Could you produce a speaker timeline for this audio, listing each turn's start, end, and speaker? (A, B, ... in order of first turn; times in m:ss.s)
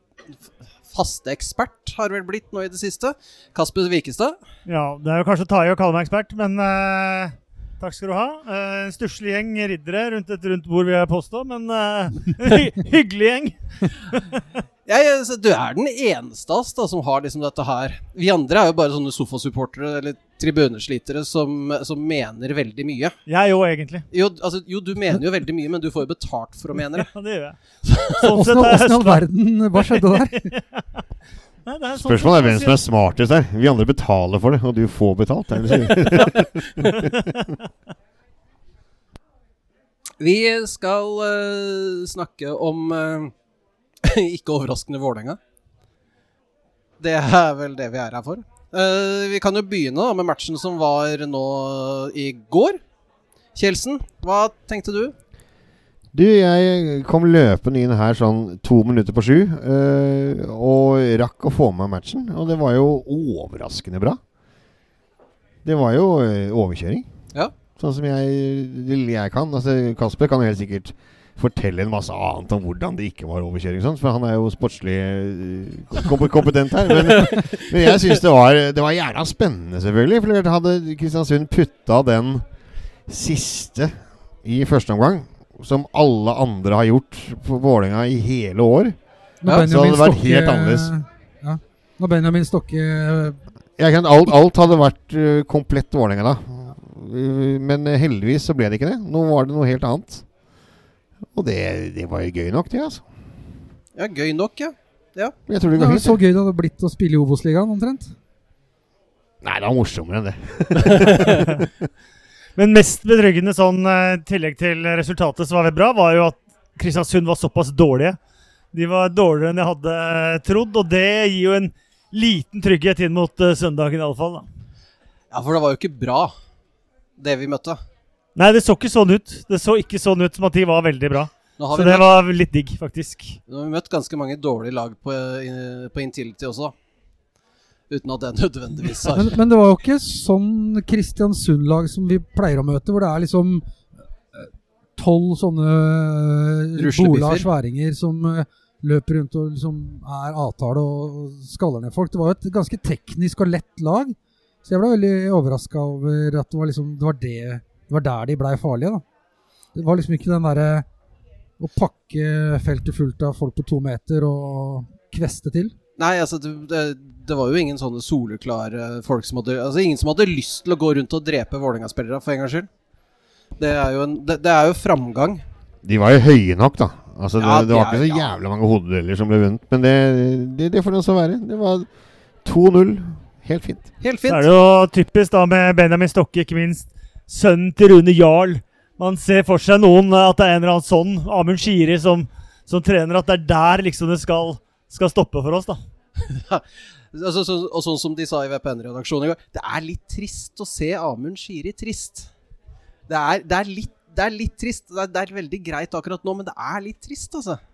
0:00.9-0:04.4 A
0:04.7-0:14.4 B
0:14.9-0:23.2 A
0:23.3-0:24.1 B
0:24.1-0:27.1 A
0:26.9-0:29.2 B
0:28.3-0:30.5 C
0:29.8-0:30.8 B
0:31.7-0:32.8 B
0:32.0-0:37.3 D
0:35.8-0:37.1 B
0:40.2-0:43.3 A
0:44.0-0:45.4 A
0:47.0-0:52.8 A
0:53.5-0:55.1 A
0:56.1-1:04.2 D
1:05.6-1:07.1 D
1:07.8-1:22.4 D
1:17.3-1:17.6 A
1:23.1-1:28.9 D
1:29.4-1:33.4 C
1:29.5-1:30.9 D
1:33.8-1:40.2 D
1:41.3-1:43.0 D
1:44.0-1:45.3 A
1:45.5-1:46.2 D
1:45.7-1:48.1 C
1:49.4-1:51.7 D
1:52.6-1:58.2 B
1:58.7-2:04.4 B
2:05.3-2:06.3 A
2:07.2-2:07.8 A
2:08.4-2:13.4 B
2:11.6-2:12.0 A
2:13.5-2:16.7 A
2:17.9-2:19.4 A
2:19.1-2:23.6 C
2:24.3-2:39.0 C
2:26.8-2:27.5 A
2:39.7-2:40.8 C
2:41.6-2:45.7 C
2:46.0-2:52.7 A
2:53.6-2:55.4 A
2:55.8-3:01.9 D
2:57.4-2:58.3 A
3:02.4-3:03.9 D
3:04.0-3:04.4 A
3:04.3-3:15.8 B
3:16.2-3:22.3 A
3:23.1-3:27.6 A